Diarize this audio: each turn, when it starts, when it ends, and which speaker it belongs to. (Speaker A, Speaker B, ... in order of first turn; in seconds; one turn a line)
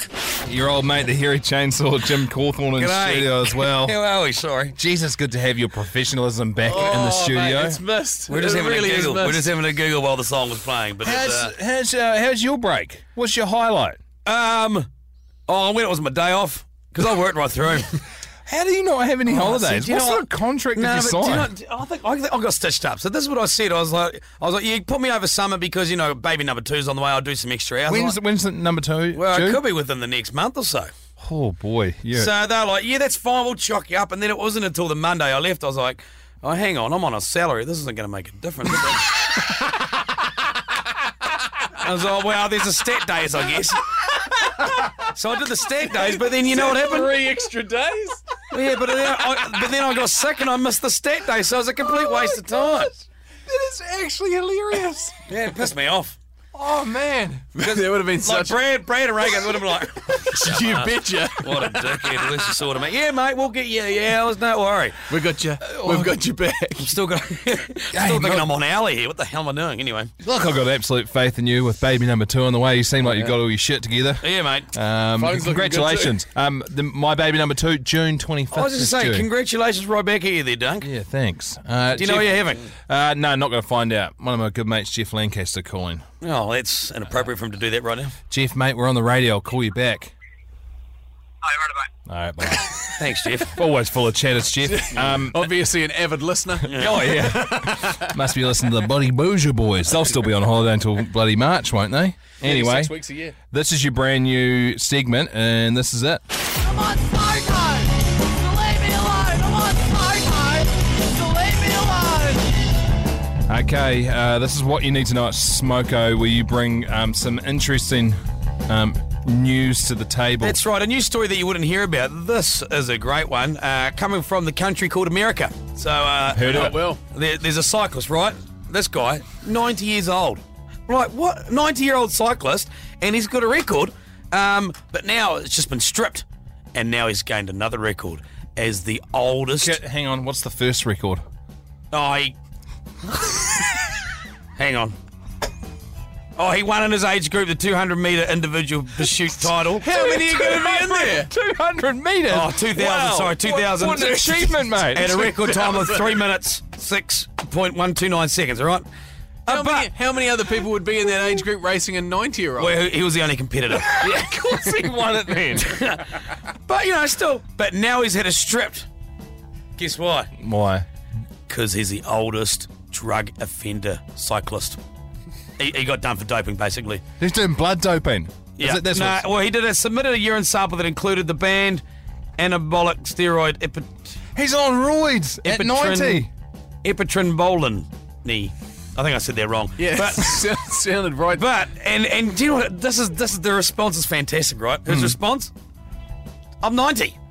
Speaker A: 0.5-4.0
Speaker B: 2.8-4.7
Speaker A: 4.8-7.8
Speaker C: 6.7-9.5
Speaker B: 8.3-11.5
Speaker A: 11.0-14.0
Speaker B: 14.2-14.9
Speaker B: 15.5-18.0
Speaker A: 18.4-21.5
Speaker B: 19.3-28.1
Speaker A: 27.9-29.6
Speaker B: 29.1-30.9
Speaker A: 31.2-32.3
Speaker B: 32.1-39.2
Speaker B: 41.8-43.8
Speaker B: 45.0-47.2
Speaker C: 45.8-48.3
Speaker B: 48.5-52.9
Speaker A: 51.8-55.2
Speaker B: 55.3-56.2
Speaker A: 56.5-57.7
Speaker C: 57.4-58.6
Speaker B: 58.2-65.0
Speaker C: 60.1-62.4
Speaker C: 65.1-66.9
Speaker A: 65.7-66.1
Speaker B: 66.8-70.1
Speaker A: 67.9-68.5
Speaker A: 70.2-79.3
Speaker C: 73.0-73.3
Speaker B: 74.2-74.7
Speaker C: 75.2-76.2
Speaker B: 78.5-80.9
Speaker A: 80.8-86.0
Speaker B: 81.9-82.6
Speaker B: 86.2-88.1
Speaker A: 88.3-90.1
Speaker A: 92.1-95.5
Speaker B: 92.9-93.5
Speaker C: 94.7-98.1
Speaker A: 96.6-102.9
Speaker B: 96.7-97.3
Speaker C: 102.4-103.3
Speaker A: 103.5-106.2
Speaker D: 106.7-112.4
Speaker A: 113.5-120.6
Speaker B: 120.4-139.8
Speaker A: 126.3-126.8
Speaker C: 126.4-127.0
Speaker A: 139.6-141.2
Speaker B: 141.9-142.3
Speaker B: 144.6-144.9
Speaker B: 146.4-149.8
Speaker C: 149.8-151.3
Speaker A: 149.8-155.3
Speaker B: 152.3-158.9
Speaker C: 155.1-156.2
Speaker B: 159.4-159.9
Speaker C: 159.5-162.7
Speaker B: 162.6-164.1
Speaker A: 164.0-165.8
Speaker C: 164.0-164.8
Speaker B: 165.6-166.0
Speaker B: 166.7-168.9
Speaker B: 169.8-170.3
Speaker A: 170.4-170.8
Speaker B: 171.5-174.8
Speaker B: 175.6-177.0
Speaker A: 177.2-179.3
Speaker B: 178.6-181.8
Speaker B: 182.4-183.9
Speaker A: 184.3-186.3
Speaker B: 185.4-186.3
Speaker B: 186.8-190.5
Speaker C: 189.8-191.4
Speaker B: 191.3-195.5
Speaker A: 194.9-195.2
Speaker B: 196.6-197.2